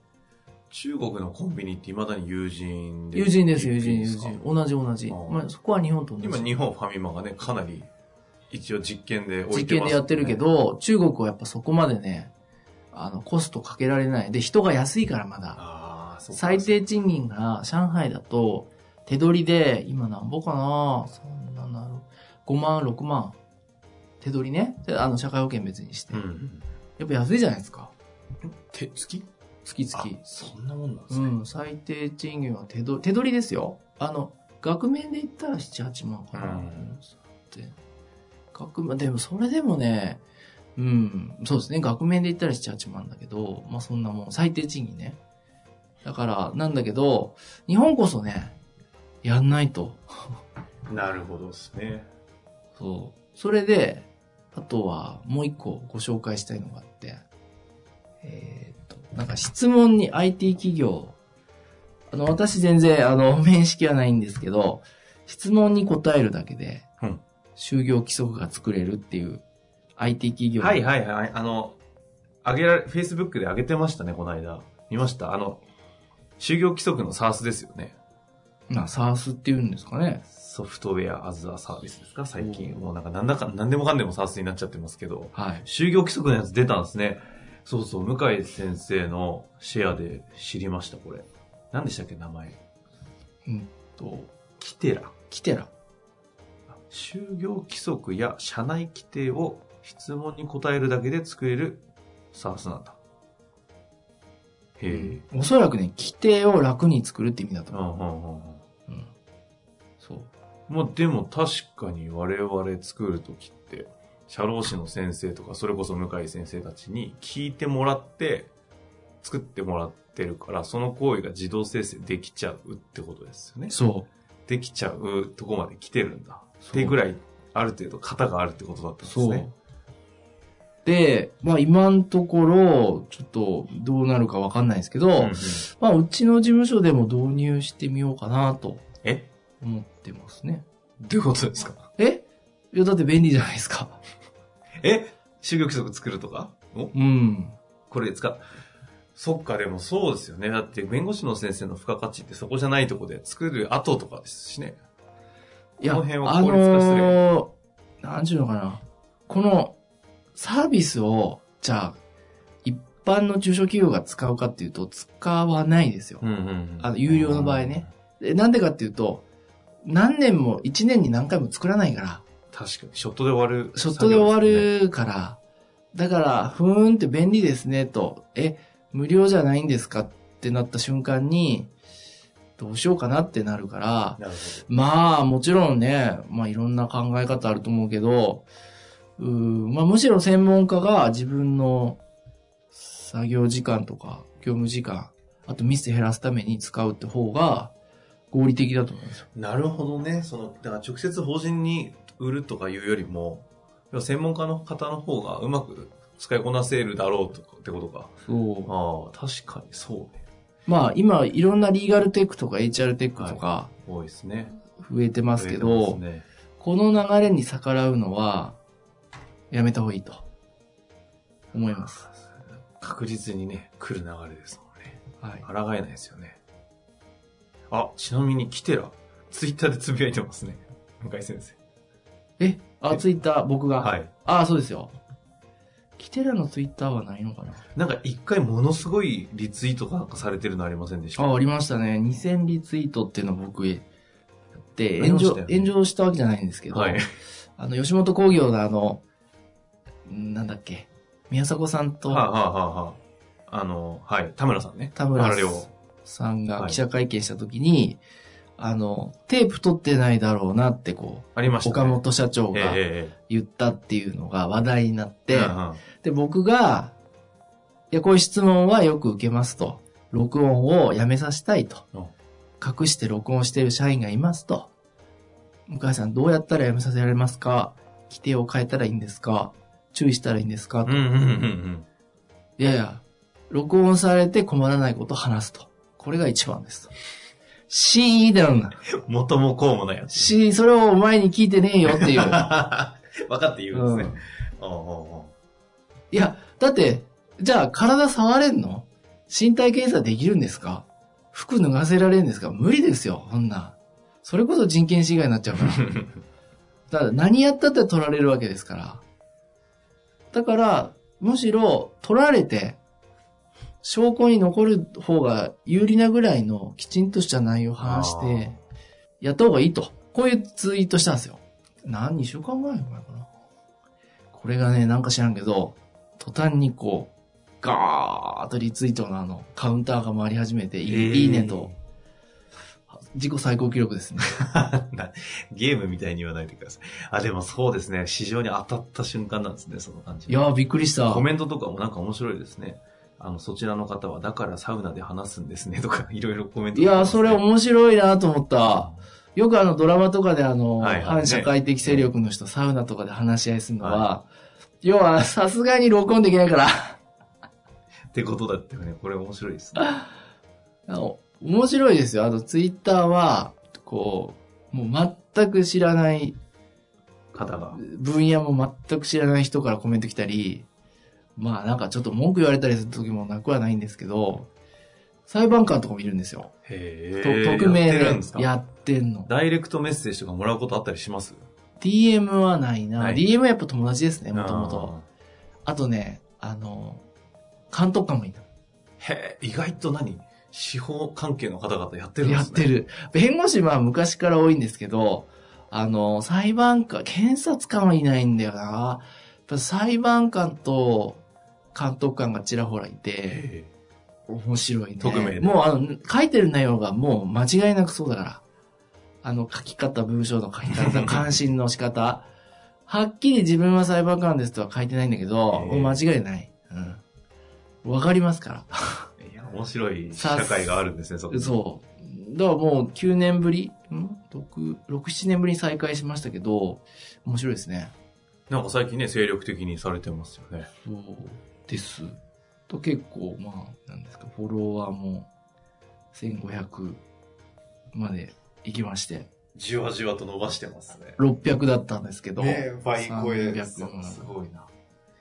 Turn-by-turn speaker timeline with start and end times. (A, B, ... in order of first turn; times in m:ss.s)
0:00.7-0:04.4 A
0:03.1-0:06.5 B
0:05.1-0:05.4 A
0:06.2-0:07.9 A
0:08.5-0:10.4 A
0:09.5-0:12.3 B
0:12.9-0:15.6 B
0:15.6-0:16.8 A
0:16.3-0:23.4 B
0:24.2-0:26.2 B
0:26.1-0:26.7 A
0:27.0-0:27.9 B
0:28.4-0:29.3 A
0:29.6-0:30.2 B
0:29.9-0:31.4 A
0:31.1-0:37.7 B
0:36.3-0:37.0 A
0:38.5-0:40.2 B
0:40.8-0:45.2 B
0:46.0-0:48.6 B
0:49.2-0:50.4 B
0:50.9-0:52.1 A
0:52.8-0:57.2 B
0:58.2-1:01.2 B
1:02.1-1:06.8 B
1:07.6-1:09.4 B
1:10.0-1:10.8 B
1:10.6-1:11.8 A
1:12.4-1:15.6 A
1:16.4-1:18.0 A
1:18.7-1:20.2 B
1:20.3-1:32.6 A
1:22.4-1:22.8 B
1:25.3-1:25.6 B
1:33.4-1:34.3 B
1:34.6-1:35.1 A
1:35.3-1:35.7 B
1:36.7-1:43.0 A
1:44.8-1:45.2 A
1:44.9-1:47.8 B
1:47.7-1:48.6 A
1:50.0-1:50.3 B
1:50.7-1:58.5 A
1:59.2-2:03.7 A
2:03.7-2:04.1 B
2:04.5-2:09.5 A
2:06.6-2:07.0 B
2:09.0-2:09.5 B
2:10.8-2:18.8 B
2:15.2-2:15.6 A
2:19.0-2:19.3 A
2:19.6-2:20.6 B
2:21.0-2:21.8 A
2:22.0-2:24.0 B
2:24.8-2:26.9 A
2:26.9-2:27.6 B
2:27.9-2:28.5 A
2:29.2-2:34.8 A
2:35.8-2:39.8 B
2:35.8-2:37.2 A
2:40.4-2:42.0 B
2:42.6-2:46.2 B
2:46.2-2:47.9 A
2:46.8-2:49.2 B
2:49.8-2:52.2 B
2:52.5-2:54.7 A
2:53.8-2:55.4 B
2:55.9-3:01.7 B
3:02.6-3:08.4 B
3:04.2-3:04.7 A
3:09.2-3:12.0 B
3:12.7-3:17.7 B
3:18.3-3:19.2 B
3:19.3-3:28.1 A
3:28.2-3:28.7 B
3:28.6-3:30.2 A
3:30.6-3:33.7 B
3:33.2-3:34.6 A
3:34.8-3:36.0 B
3:35.4-3:36.2 A
3:36.6-3:38.6 B
3:39.5-3:40.2 B
3:41.5-3:42.1 B
3:42.8-3:46.4 A
3:45.2-3:45.4 B
3:47.7-3:51.6 A
3:52.4-3:54.9 B
3:53.8-3:54.1 A
3:56.0-3:57.6 B
3:57.7-4:01.2 A
4:01.2-4:03.8 B
4:04.6-4:07.0 B
4:05.0-4:05.7 A
4:06.7-4:07.1 A
4:07.6-4:09.0 B
4:10.1-4:12.3 B
4:12.0-4:15.7 A
4:14.9-4:18.0 B
4:18.6-4:26.9 B
4:21.4-4:22.0 A
4:22.5-4:23.1 A
4:25.3-4:25.8 A
4:27.9-4:31.8 B
4:32.6-4:34.7 B
4:35.7-4:41.0 B
4:40.8-4:41.8 A
4:42.6-4:46.9 B
4:47.7-4:48.8 B
4:48.9-4:50.3 A
4:50.1-4:52.5 B
4:51.8-4:55.3 A
4:53.7-4:54.2 B
4:56.1-5:06.0 B
5:06.9-5:09.0 B
5:10.3-5:12.8 B
5:13.8-5:18.5 B
5:17.8-5:18.6 A
5:19.2-5:23.3 B
5:24.3-5:31.7 B
5:30.8-5:31.8 A
5:32.9-5:34.3 B
5:34.2-5:40.4 A
5:40.3-5:41.3 B
5:41.1-5:47.4 A
5:46.7-5:54.3 B
5:48.6-5:49.0 A
5:50.8-5:52.1 A
5:54.8-5:57.0 B
5:58.1-6:00.0 A
6:00.9-6:06.4 B
6:07.3-6:07.8 A
6:07.7-6:10.7 B
6:11.4-6:14.5 B
6:15.3-6:16.5 B
6:16.6-6:18.5 A
6:17.2-6:19.3 B
6:19.3-6:21.4 A
6:21.8-6:25.0 B
6:23.0-6:23.2 A
6:24.3-6:25.1 A
6:25.6-6:27.0 B
6:27.7-6:28.4 B
6:29.0-6:32.7 A
6:32.2-6:41.2 B
6:41.7-6:43.4 B
6:43.3-6:43.7 A
6:44.3-6:48.4 B
6:45.0-6:45.6 A
6:49.2-6:52.3 B
6:50.7-6:51.3 A
6:52.8-6:57.0 B
6:55.5-6:56.0 A
6:57.8-6:59.1 B
6:59.2-7:01.5 A
7:00.1-7:00.7 B
7:01.3-7:07.9 B
7:08.5-7:10.7 A
7:10.8-7:12.2 B
7:12.7-7:15.3 B
7:16.1-7:17.0 B
7:17.9-7:19.3 B
7:19.5-7:21.2 A
7:21.2-7:24.4 B
7:22.4-7:24.6 A